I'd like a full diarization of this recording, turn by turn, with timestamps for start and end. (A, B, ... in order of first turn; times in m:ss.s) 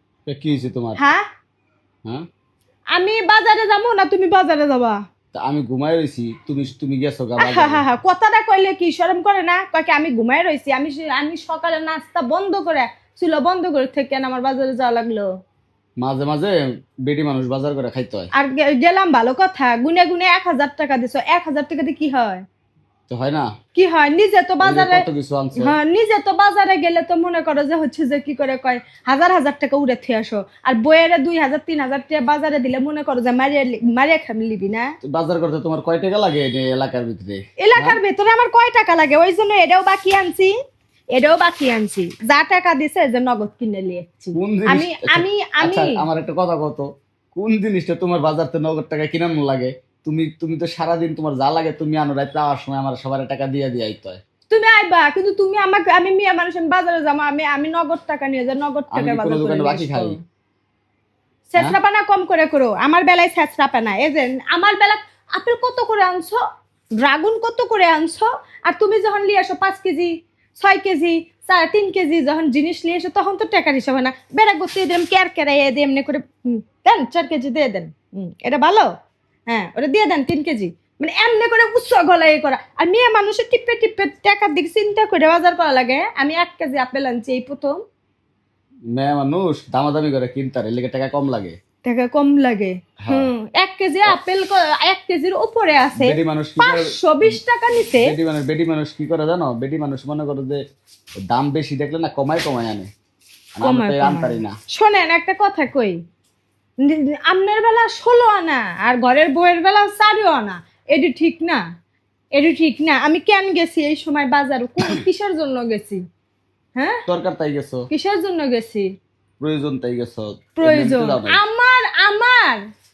0:00.2-0:01.0 A
0:01.0-0:01.2 B
0:02.9-0:05.0 B
0:05.3-0:07.8 A
0:07.4-0:15.3 B
0:16.0-0:18.3 A
0:18.3-0:22.4 B
0:23.1-0:23.5 A
0:23.7-0:25.0 B
0:24.6-0:25.8 A
0:25.6-0:34.9 B
0:35.0-0:38.0 A
0:37.6-0:40.5 B
0:41.1-0:46.0 B
0:44.4-0:54.2 A
0:54.5-1:00.2 B
0:58.9-1:00.1 A
1:01.5-1:06.4 B
1:07.0-1:18.9 B
1:19.5-1:27.8 B
1:28.9-1:31.5 A
1:31.8-1:38.1 B
1:33.0-1:33.3 A
1:36.0-1:37.4 A
1:37.9-1:40.6 A
1:41.2-1:42.9 A
1:43.6-1:44.6 A
1:43.6-1:46.0 B
1:46.8-1:51.6 B
1:52.3-1:56.0 B
1:57.1-1:57.9 A
1:57.9-1:58.9 B
1:59.4-2:01.4 A
2:00.6-2:02.6 B